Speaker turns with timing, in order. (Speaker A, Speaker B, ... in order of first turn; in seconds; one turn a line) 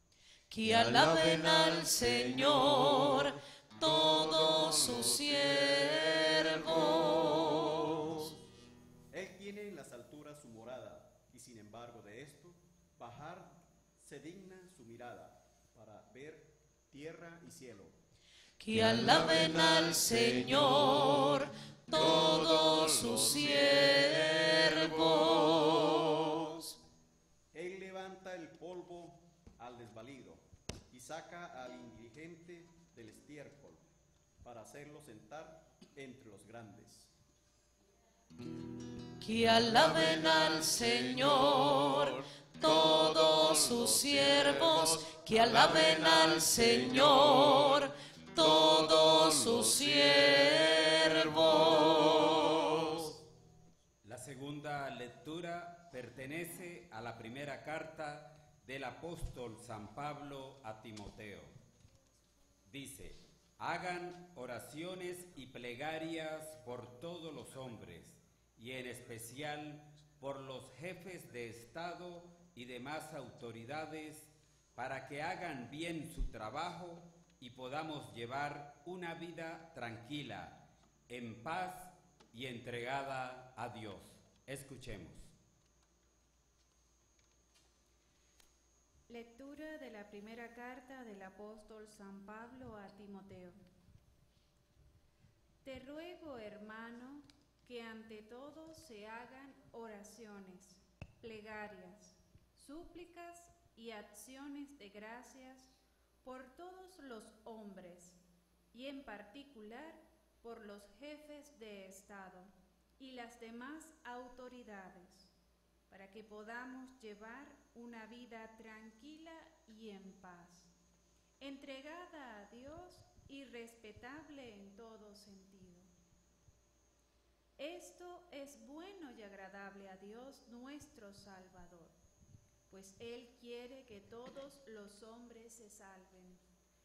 Speaker A: 0.5-7.9
Speaker B: 9.1-18.0
Speaker A: 18.6-26.6
Speaker B: 27.5-33.8
Speaker B: 34.4-37.1
Speaker A: 39.2-52.9
Speaker C: 54.0-61.5
Speaker C: 62.7-85.3
Speaker D: 89.1-93.6
Speaker D: 95.6-105.7
Speaker D: 106.2-108.2
Speaker D: 108.7-115.3
Speaker D: 115.9-120.7
Speaker D: 121.4-125.9
Speaker D: 127.6-131.9
Speaker D: 132.7-136.4